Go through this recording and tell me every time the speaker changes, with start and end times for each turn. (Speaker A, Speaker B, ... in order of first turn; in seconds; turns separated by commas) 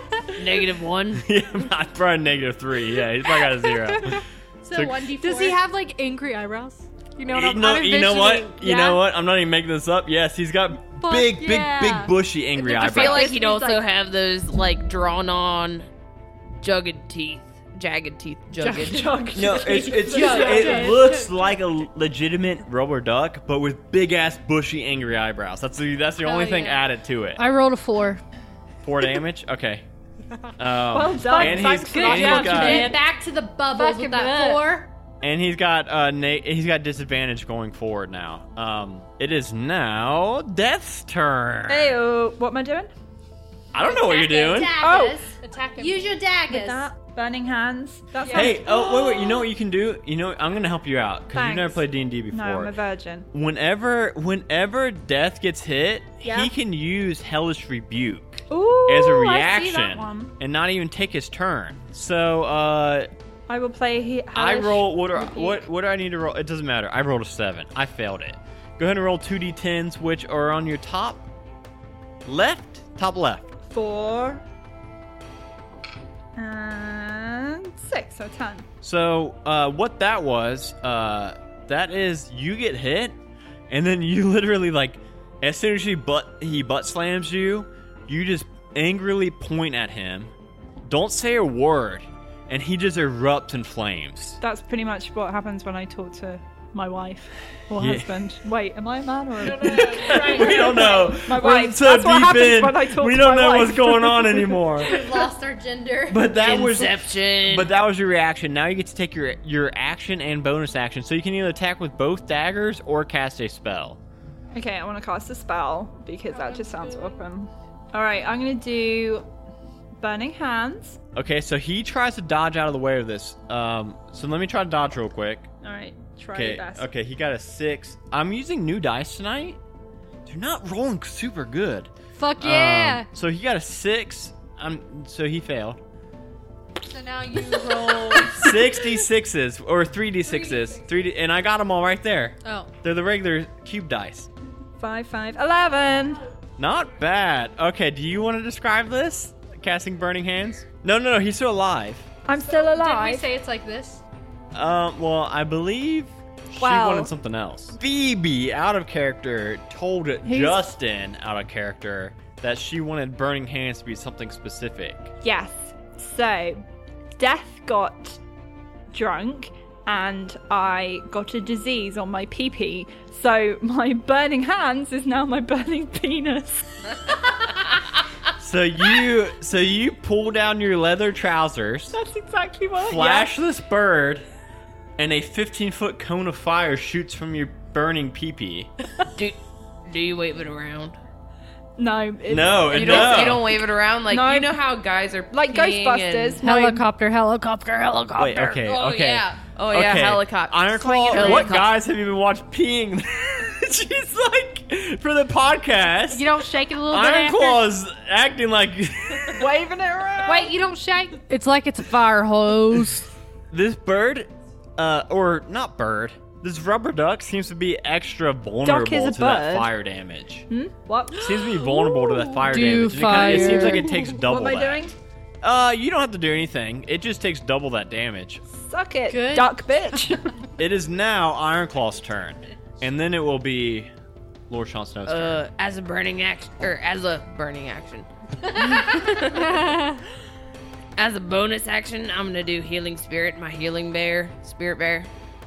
Speaker A: 0.3-1.2, Speaker B: 1.2-5.1, Speaker C: 4.6-5.6, Speaker D: 5.0-9.0, Speaker B: 7.3-13.3, Speaker D: 11.0-13.8, Speaker A: 12.7-15.9, Speaker A: 16.6-19.1, Speaker C: 18.6-19.1, Speaker E: 18.8-20.9, Speaker B: 19.3-27.4, Speaker D: 19.9-21.3, Speaker C: 20.0-21.1, Speaker D: 26.2-26.8, Speaker C: 27.4-28.2, Speaker B: 28.8-29.8, Speaker B: 30.6-33.0, Speaker E: 30.9-32.9, Speaker D: 31.3-34.8, Speaker C: 31.5-34.9, Speaker B: 35.2-42.0, Speaker E: 41.7-42.9, Speaker B: 43.7-44.8, Speaker D: 43.8-46.9, Speaker E: 44.8-45.3, Speaker C: 45.8-46.3, Speaker E: 46.5-49.5, Speaker D: 48.2-48.5, Speaker B: 48.3-52.7, Speaker E: 51.3-53.3, Speaker B: 53.3-63.1, Speaker E: 56.2-56.5, Speaker E: 58.5-60.3, Speaker E: 63.5-65.6, Speaker B: 64.3-71.3, Speaker B: 72.2-73.5, Speaker E: 73.7-74.4, Speaker E: 76.3-78.7, Speaker B: 78.8-83.2, Speaker B: 83.7-90.3, Speaker B: 90.9-94.4, Speaker E: 94.4-104.6, Speaker B: 97.8-98.1, Speaker D: 99.4-101.1, Speaker B: 99.5-105.0, Speaker C: 104.8-106.3, Speaker D: 104.9-105.3, Speaker B: 106.1-114.0, Speaker A: 106.4-107.7, Speaker E: 114.5-119.2, Speaker D: 116.3-117.2, Speaker E: 120.0-121.0, Speaker B: 121.1-125.5, Speaker E: 125.6-126.9, Speaker B: 126.3-129.6, Speaker B: 130.2-135.8, Speaker D: 132.2-133.1, Speaker D: 136.8-138.9, Speaker B: 138.1-144.3, Speaker D: 140.2-140.8, Speaker E: 144.8-146.2, Speaker B: 146.6-152.1, Speaker E: 152.3-153.3, Speaker D: 152.4-154.0, Speaker B: 154.5-165.1, Speaker E: 156.6-157.1, Speaker C: 160.2-160.6, Speaker E: 165.2-166.6, Speaker E: 167.2-168.2, Speaker E: 168.9-176.7, Speaker B: 178.4-182.0, Speaker E: 181.9-183.3, Speaker B: 182.8-184.2, Speaker B: 185.0-188.7, Speaker A: 189.2-190.9, Speaker E: 191.8-193.5, Speaker B: 192.3-193.5, Speaker A: 192.7-196.4, Speaker E: 194.1-194.5, Speaker E: 195.3-196.8, Speaker C: 196.4-198.6, Speaker B: 198.2-209.5, Speaker A: 198.6-201.7, Speaker C: 201.1-201.5, Speaker D: 206.1-207.6, Speaker C: 206.4-207.1, Speaker E: 209.3-210.5, Speaker D: 210.2-211.2, Speaker C: 211.3-213.1, Speaker B: 213.5-220.5, Speaker E: 218.6-219.7, Speaker E: 220.5-221.4, Speaker B: 221.2-224.8, Speaker C: 221.6-224.0, Speaker E: 223.2-224.9, Speaker B: 225.4-228.4, Speaker E: 228.5-230.4, Speaker C: 229.1-229.7, Speaker B: 230.6-233.9, Speaker B: 234.5-235.4, Speaker A: 235.1-239.7, Speaker D: 239.3-240.0, Speaker A: 241.0-245.1